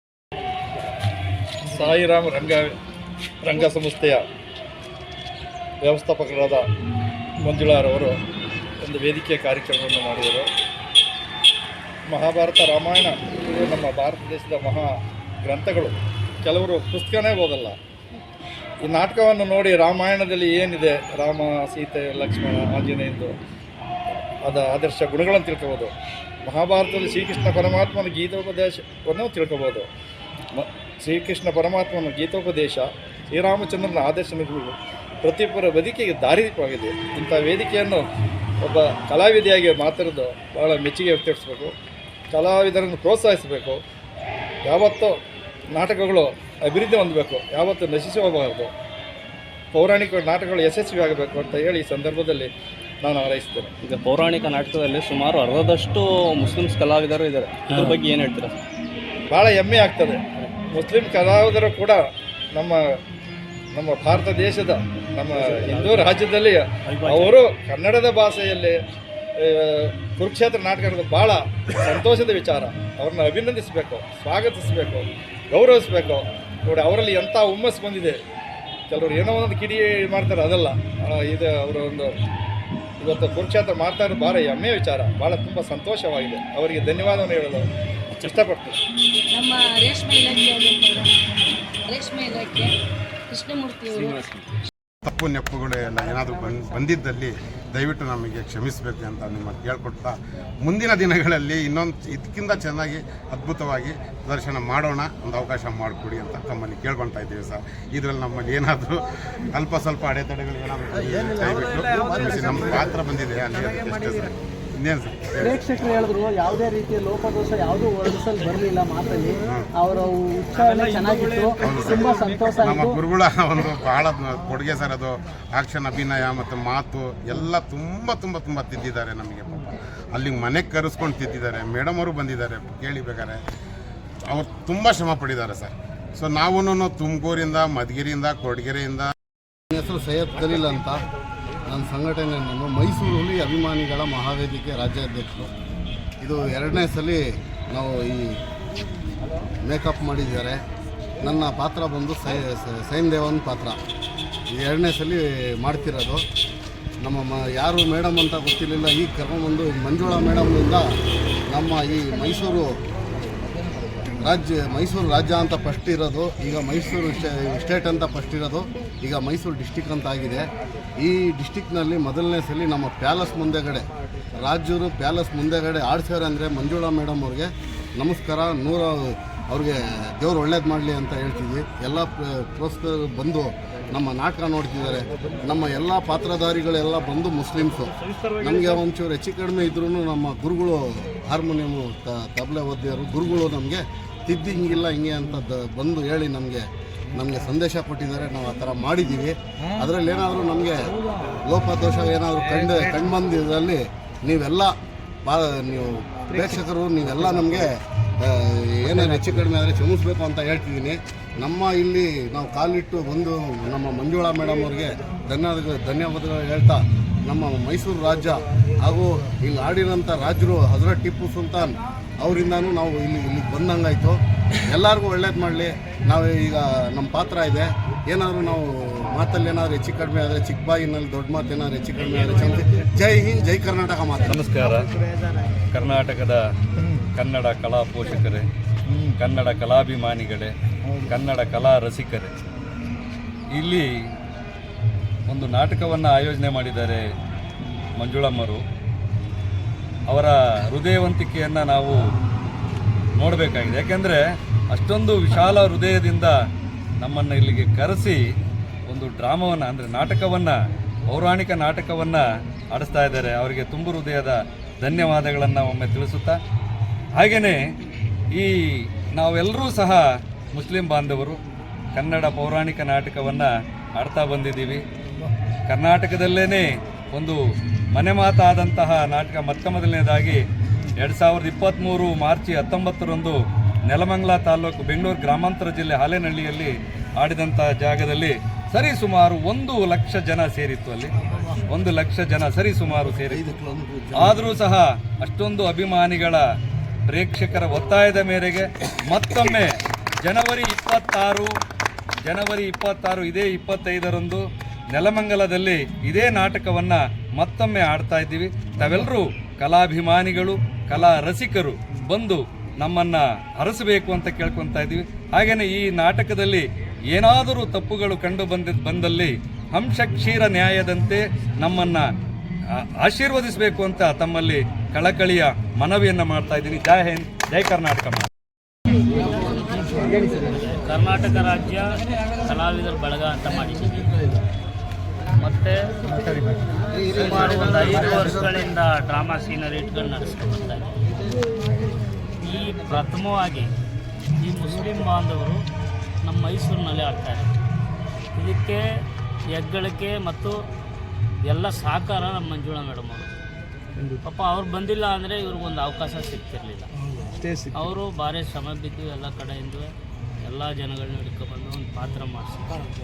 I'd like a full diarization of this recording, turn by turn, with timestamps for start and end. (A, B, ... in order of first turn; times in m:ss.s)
0:01.7-0:02.8 A
0:03.4-0:04.3 A
0:05.8-0:06.7 A
0:07.4-0:08.2 A
0:08.8-0:10.5 A
0:12.1-0:17.8 A
0:18.8-0:23.4 A
0:24.4-0:25.9 A
0:26.4-0:29.9 A
0:30.5-0:38.1 A
0:38.6-0:41.8 A
0:42.3-0:43.8 A
0:44.6-0:45.2 A
0:45.7-0:48.7 A
0:49.7-0:52.5 A
0:53.0-0:53.7 A
0:53.8-0:58.5 B
0:57.7-0:58.0 C
0:59.3-1:03.0 A
1:03.7-1:08.8 A
1:05.5-1:06.0 B
1:07.0-1:07.4 B
1:09.4-1:18.2 A
1:18.9-1:22.1 A
1:23.0-1:28.8 A
1:29.3-1:32.7 D
1:33.3-1:34.2 D
1:35.0-1:49.0 E
1:49.5-1:55.8 E
1:55.4-2:03.0 F
2:01.6-2:13.4 E
2:14.3-2:19.1 E
2:19.7-2:21.0 G
2:21.7-2:25.5 G
2:26.2-2:28.4 G
2:29.6-2:30.6 G
2:31.2-2:33.8 G
2:34.5-2:36.2 G
2:37.0-2:40.9 G
2:41.5-2:42.8 G
2:44.2-2:50.4 G
2:51.0-3:54.4 G
3:54.3-3:54.9 H
3:55.7-3:56.4 H
3:57.1-3:58.5 H
3:59.2-4:00.5 H
4:01.1-4:02.3 H
4:03.5-4:03.9 H
4:05.3-4:07.0 H
4:08.0-4:08.6 H
4:10.1-4:12.0 H
4:13.2-4:14.2 H
4:14.7-4:16.4 H
4:17.0-4:18.2 H
4:18.9-4:20.6 H
4:21.1-4:26.4 H
4:27.2-4:27.6 H
4:29.1-4:31.4 H
4:32.0-4:34.8 H
4:35.7-4:37.4 H
4:37.9-4:40.4 H
4:41.0-4:51.1 H
4:51.7-4:53.4 H
4:53.0-4:54.6 G
4:54.2-4:56.4 H
4:57.1-5:01.5 H
5:02.3-5:22.1 H
5:22.7-5:28.3 H
5:29.2-5:34.3 C
5:35.4-5:36.3 C
5:36.9-5:40.9 C
5:42.4-5:43.8 C
5:44.4-5:45.6 C
5:46.2-5:47.6 C
5:48.4-5:48.9 C
5:49.5-5:50.6 C
5:51.4-5:53.3 C
5:54.2-5:56.9 C
5:57.6-5:59.9 C
6:00.4-6:02.8 C